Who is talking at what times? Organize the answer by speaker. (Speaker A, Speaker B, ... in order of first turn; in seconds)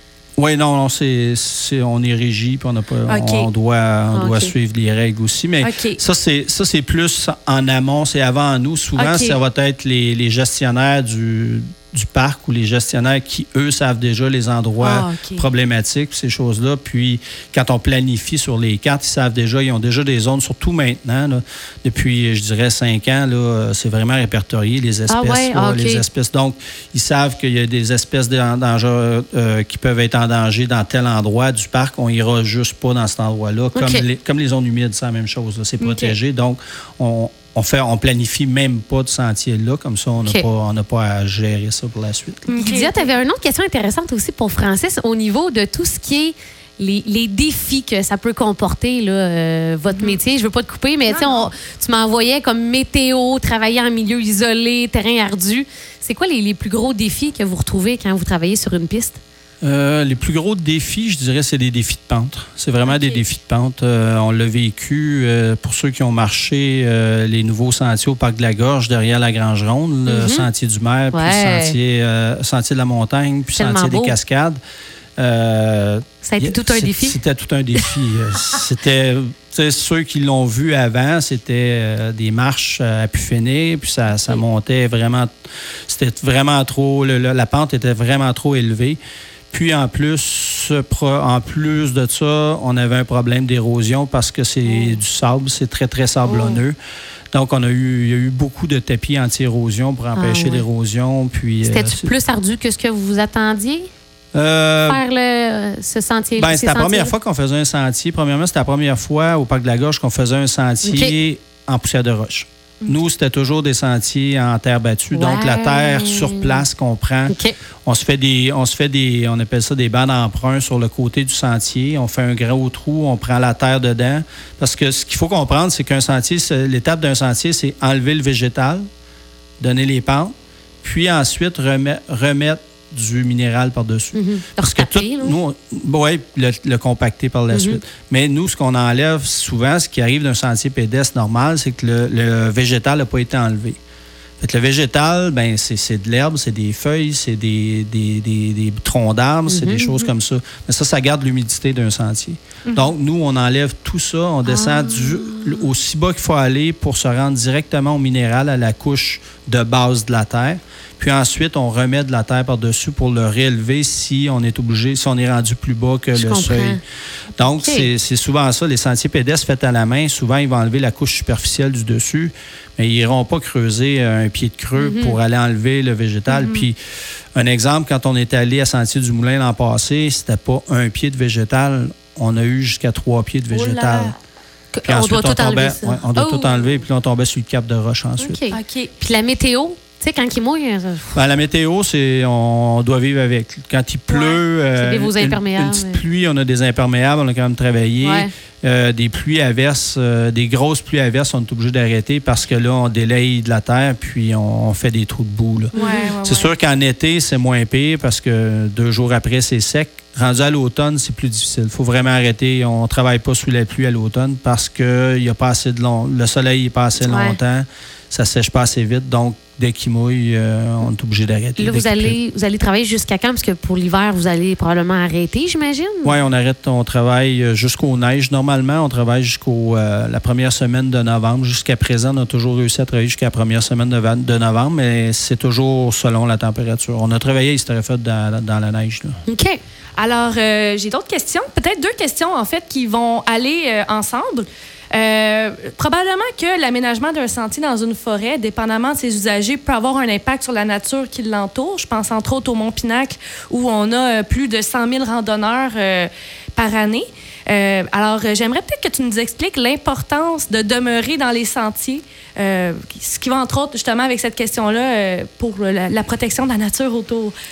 Speaker A: 0.4-42.5, 59.6-74.6, 75.2-85.3, 85.9-89.0, 89.5-96.8, 97.3-102.1, 104.3-105.0, 106.4-117.3, 117.9-128.8, 129.6-130.3, 130.8-143.8, 144.4-166.8, 167.4-176.8, 177.3-184.1, 184.8-188.4, 191.1-222.2, 226.0-239.2
Speaker B: 3.1-3.5, 5.6-6.0, 9.0-9.4, 14.8-15.5, 35.8-36.2, 42.5-43.1, 49.9-50.2, 51.1-51.5, 152.7-152.9, 176.3-176.7, 183.5-184.1, 188.5-188.9, 194.1-194.4, 205.8-206.5, 240.0-267.3
Speaker C: 4.1-4.5, 25.1-26.0, 33.7-34.0, 42.6-59.2, 62.9-63.2, 70.1-70.5, 71.1-71.8, 73.5-74.2, 76.2-77.2, 94.7-95.0, 96.2-96.6, 100.1-100.7, 101.6-103.9, 104.9-107.1, 110.8-111.2, 115.1-116.6, 117.3-117.5, 134.1-135.4, 137.5-137.8, 149.5-150.1, 154.5-155.7, 166.1-166.8, 167.4-167.9, 174.8-175.2, 184.7-186.7, 188.2-191.2, 194.8-196.0, 198.0-198.3, 205.8-206.0, 217.0-217.4, 221.6-226.2, 239.3-239.6